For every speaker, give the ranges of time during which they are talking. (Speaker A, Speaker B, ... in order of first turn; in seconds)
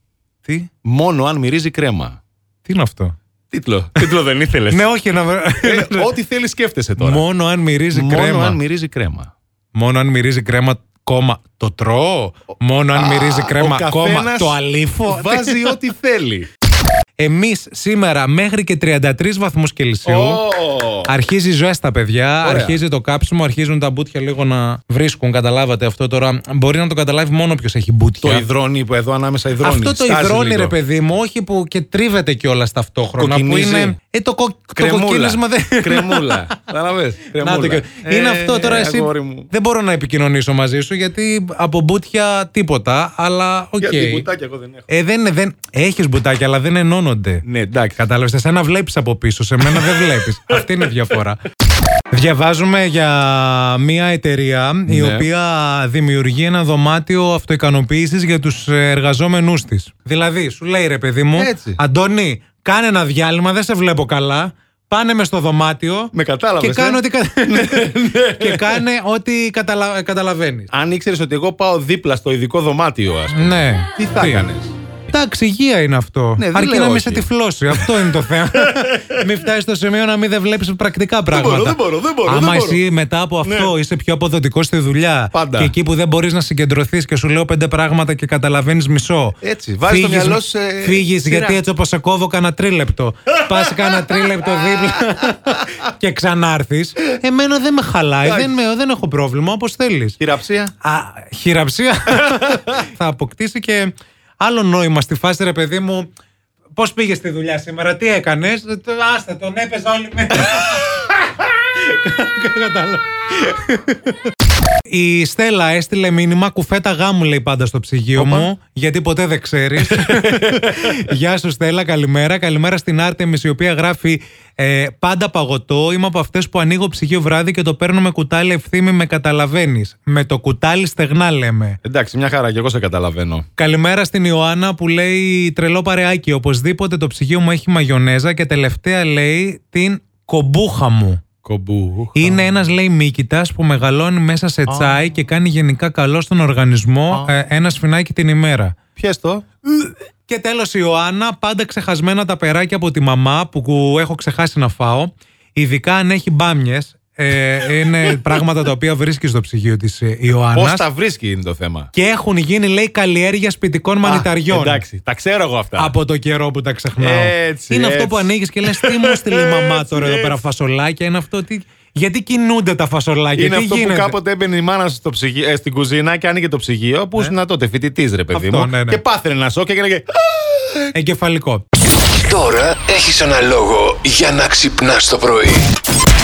Speaker A: 0.4-0.7, 2.6-3.1, 4.7-6.1, 7.0-8.6, 9.7-15.8, 17.2-20.4, 21.1-28.5, 29.6-36.4, 37.4-44.3, 44.9-47.4, 47.9-51.4, 52.1-70.7, 73.3-74.5, 75.1-100.2, 100.8-106.1, 106.7-114.1, 114.9-131.8, 133.6-141.2, 142.1-148.8, 149.7-160.8, 161.9-164.8, 165.8-174.2, 178.3-179.0, 180.9-181.6
Speaker B: 0.8-2.2, 3.5-4.8, 5.6-7.2, 7.9-9.3, 12.9-16.5, 20.1-21.1, 22.4-22.8, 28.2-30.8, 33.2-34.0, 34.8-39.5, 43.8-44.9, 47.4-48.0, 49.6-50.1, 54.9-55.3, 61.4-61.8, 66.1-68.8, 70.7-74.7, 76.4-79.2, 81.3-82.8, 83.4-83.7, 85.3-85.7, 89.4-91.6, 93.8-94.1, 94.7-95.0, 98.2-98.5, 100.2-100.7, 102.3-102.6, 118.2-118.5, 119.8-120.9, 131.8-133.4, 141.4-142.5, 144.7-145.0, 148.9-149.4, 160.5-161.9, 164.0-165.9, 167.0-170.4, 173.3-180.8
Speaker C: 182.1-185.7